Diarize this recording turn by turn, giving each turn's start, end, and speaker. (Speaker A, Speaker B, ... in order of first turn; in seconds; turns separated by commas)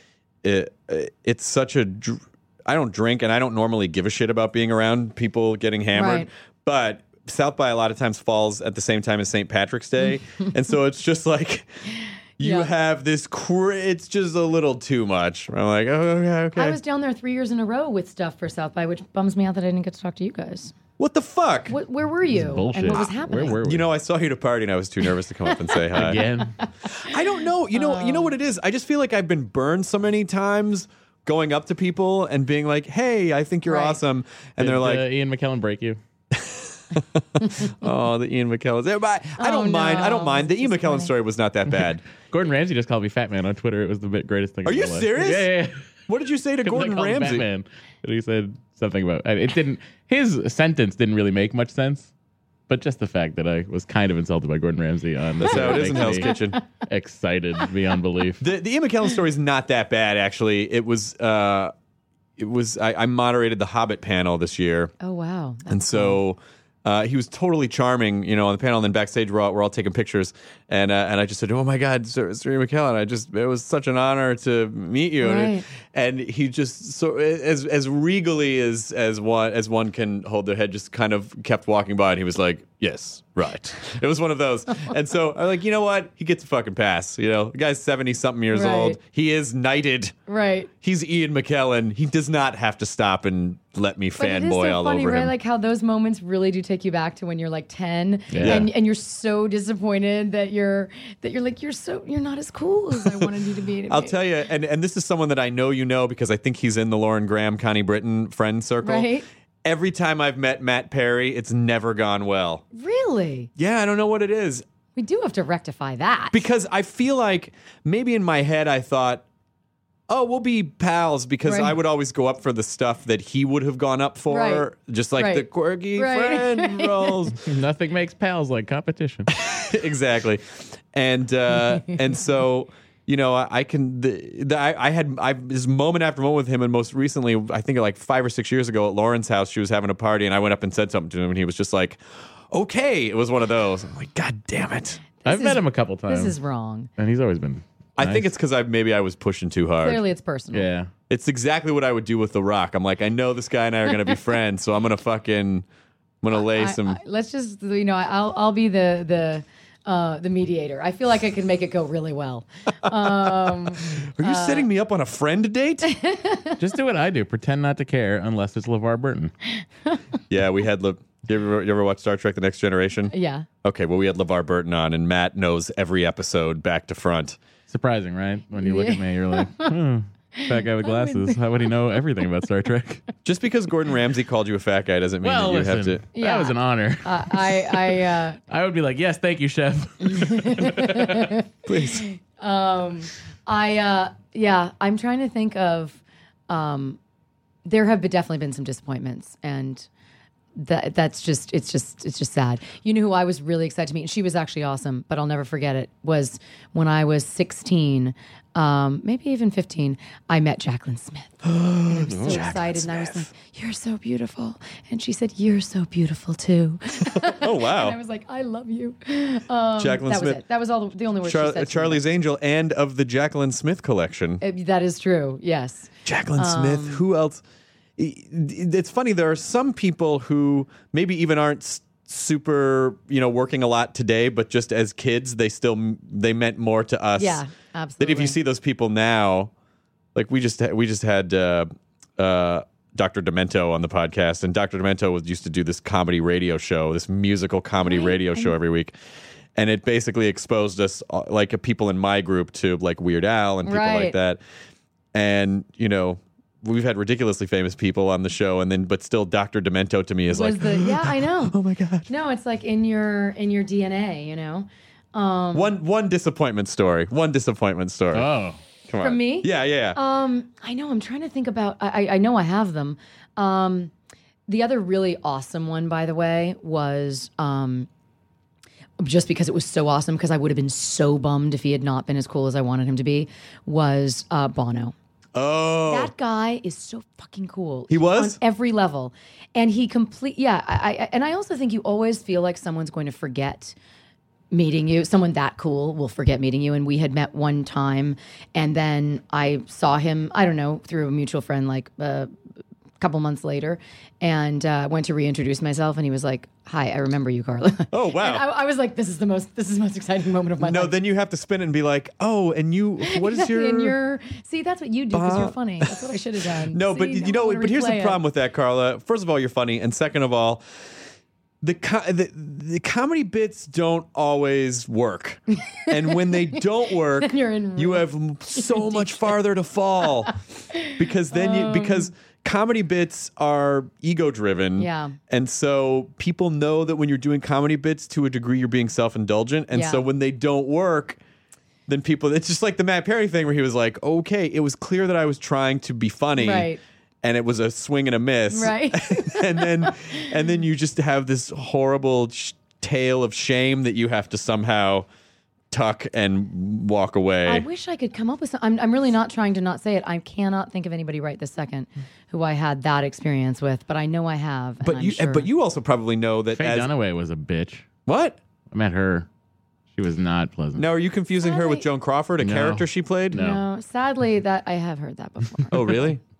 Speaker A: 0.4-11.7, Speaker B: 5.9-6.3, Speaker A: 12.4-16.8, Speaker B: 12.4-12.7, Speaker B: 16.6-20.7, Speaker A: 21.0-21.7, Speaker B: 21.7-23.6, Speaker C: 22.3-23.9, Speaker A: 23.6-26.2, Speaker C: 25.9-26.5, Speaker B: 26.4-27.1, Speaker A: 26.9-35.1, Speaker B: 27.7-28.3, Speaker B: 33.6-34.0, Speaker C: 34.6-36.0, Speaker A: 36.3-42.0, Speaker B: 39.4-41.1, Speaker C: 42.3-45.8, Speaker A: 44.6-45.5, Speaker A: 46.1-47.5, Speaker C: 46.6-52.1, Speaker C: 52.7-56.3, Speaker A: 55.4-56.6, Speaker B: 55.5-56.6, Speaker C: 56.9-58.5, Speaker A: 58.4-61.7, Speaker A: 62.4-64.9, Speaker B: 65.0-66.2, Speaker A: 65.7-90.1, Speaker B: 75.2-75.7, Speaker B: 88.5-89.0, Speaker B: 90.3-90.7, Speaker A: 90.8-95.3, Speaker B: 94.2-104.2, Speaker C: 98.3-98.6, Speaker A: 98.4-98.7, Speaker A: 103.9-109.1, Speaker B: 108.8-109.2, Speaker A: 109.6-112.6, Speaker B: 112.7-113.5, Speaker A: 113.6-114.6, Speaker B: 115.0-116.4, Speaker A: 116.3-119.2, Speaker A: 120.1-127.4, Speaker B: 121.5-121.8, Speaker B: 124.3-127.3, Speaker C: 127.4-129.3, Speaker A: 129.3-145.0, Speaker B: 145.2-146.9, Speaker C: 145.2-146.3, Speaker C: 147.0-148.3, Speaker A: 148.0-150.0, Speaker B: 149.8-150.7, Speaker C: 150.5-150.9, Speaker A: 151.1-155.7, Speaker A: 156.2-157.0, Speaker B: 156.4-164.7, Speaker A: 162.8-165.9, Speaker B: 165.9-166.6, Speaker C: 166.6-169.3, Speaker A: 170.3-177.4, Speaker B: 173.1-173.4, Speaker C: 177.7-183.0, Speaker B: 178.6-179.7, Speaker B: 180.4-181.3, Speaker A: 183.2-186.0, Speaker C: 185.2-188.0, Speaker B: 186.2-188.4, Speaker C: 188.5-191.2, Speaker B: 190.1-191.4, Speaker A: 191.7-192.1, Speaker B: 192.1-197.0, Speaker B: 197.6-199.9, Speaker B: 200.5-222.0, Speaker A: 211.4-213.3, Speaker A: 217.1-218.0, Speaker A: 219.8-220.4, Speaker A: 221.2-224.4, Speaker B: 224.4-227.0, Speaker A: 226.1-227.4, Speaker A: 228.0-237.4, Speaker B: 237.2-238.4, Speaker A: 238.0-239.5, Speaker A: 240.1-248.9, Speaker B: 247.8-248.5, Speaker A: 249.5-254.4, Speaker B: 253.6-254.2, Speaker A: 255.1-262.1, Speaker B: 260.3-261.6, Speaker B: 262.1-265.7, Speaker A: 265.5-268.3, Speaker C: 268.1-268.6, Speaker A: 268.9-270.0, Speaker B: 269.0-273.9, Speaker B: 274.5-277.9, Speaker B: 279.0-284.9, Speaker A: 285.3-286.1, Speaker B: 285.9-293.7, Speaker A: 287.9-288.4, Speaker B: 294.5-302.3, Speaker B: 303.0-310.9, Speaker A: 307.9-308.4, Speaker A: 310.6-313.9, Speaker B: 313.0-318.2, Speaker A: 315.1-316.1, Speaker A: 316.7-320.6, Speaker A: 321.6-341.2, Speaker B: 325.7-329.3, Speaker B: 330.3-332.1, Speaker B: 334.8-335.2, Speaker B: 339.7-340.1, Speaker A: 341.9-346.7, Speaker B: 346.4-346.8, Speaker A: 347.2-355.1, Speaker B: 348.5-350.2, Speaker A: 355.7-357.6, Speaker B: 357.4-365.5, Speaker A: 364.8-366.9, Speaker C: 366.5-367.9, Speaker A: 368.1-368.4, Speaker C: 368.7-369.3, Speaker C: 369.9-370.9, Speaker A: 370.8-373.4, Speaker B: 371.4-371.8, Speaker C: 372.4-373.6, Speaker B: 373.3-376.1, Speaker A: 375.7-376.2